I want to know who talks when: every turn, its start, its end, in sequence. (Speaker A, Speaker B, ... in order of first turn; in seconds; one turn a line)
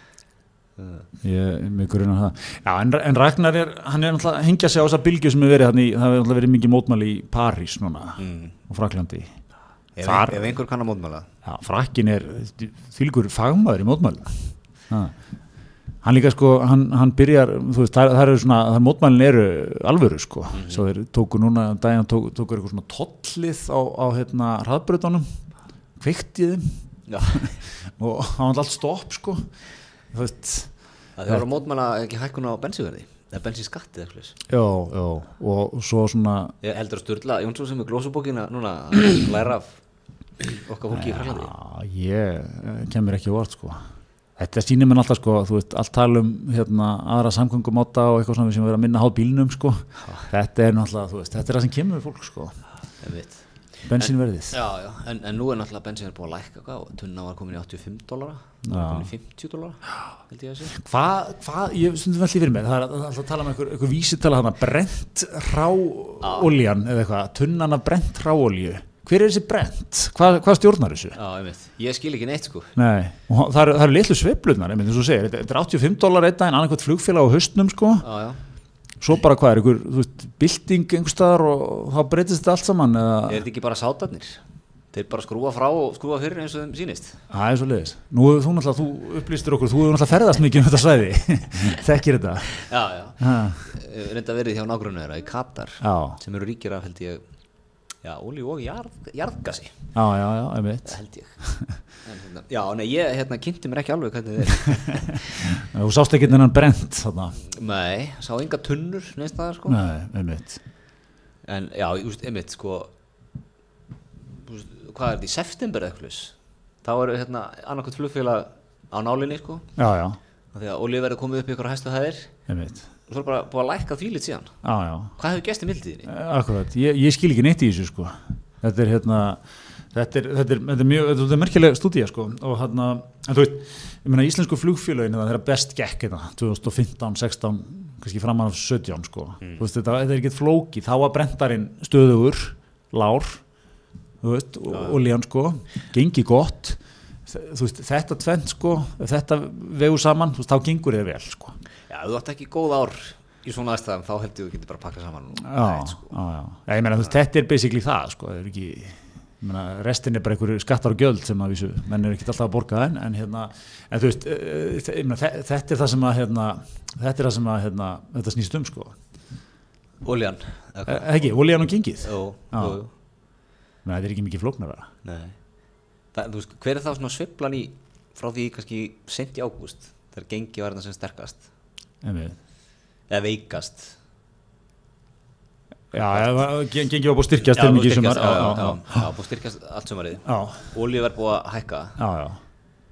Speaker A: 0.8-1.1
Speaker B: 1.2-9.3
Speaker A: 8.2-8.5
Speaker A: 9.9-11.3
Speaker B: 10.0-10.5
Speaker B: 11.4-14.3
Speaker B: 14.9-15.1
Speaker B: 16.0-25.2
Speaker A: 20.5-20.8
Speaker B: 26.0-26.6
Speaker A: 27.1-27.6
Speaker B: 27.4-29.4
Speaker B: 30.1-30.7
Speaker A: 31.2-34.4
Speaker B: 34.5-36.5
Speaker A: 36.6-39.8
Speaker A: 40.4-41.5
Speaker B: 40.9-43.8
Speaker B: 44.4-52.5
Speaker A: 53.0-53.4
Speaker B: 53.9-54.6
Speaker A: 54.0-60.8
Speaker B: 58.6-59.1
Speaker B: 60.7-71.2
Speaker A: 66.2-66.5
Speaker A: 71.2-72.7
Speaker B: 72.8-78.0
Speaker A: 78.0-78.4
Speaker B: 79.0-83.4
Speaker A: 83.3-84.4
Speaker A: 84.9-87.2
Speaker B: 87.3-92.5
Speaker A: 92.5-97.2
Speaker B: 93.2-93.6
Speaker B: 95.8-96.2
Speaker A: 98.0-99.7
Speaker B: 99.9-101.7
Speaker A: 100.8-101.4
Speaker A: 102.0-105.3
Speaker B: 105.1-107.4
Speaker A: 107.4-109.8
Speaker B: 109.7-110.6
Speaker A: 111.5-112.9
Speaker A: 114.4-119.7
Speaker B: 119.8-120.2
Speaker A: 120.5-122.3
Speaker B: 122.5-122.8
Speaker A: 123.1-124.5
Speaker B: 124.6-125.1
Speaker A: 125.2-126.1
Speaker B: 126.1-129.4
Speaker B: 129.9-143.4
Speaker B: 144.2-151.6
Speaker A: 144.7-145.0
Speaker A: 151.9-156.1
Speaker B: 155.4-168.9
Speaker A: 170.0-171.1
Speaker B: 170.9-172.8
Speaker A: 172.0-172.9
Speaker B: 173.8-174.9
Speaker A: 175.1-175.4
Speaker A: 176.1-181.4
Speaker B: 182.0-182.4
Speaker A: 183.1-183.9
Speaker B: 185.9-189.1
Speaker A: 187.4-192.0
Speaker B: 190.2-190.6
Speaker B: 192.0-192.4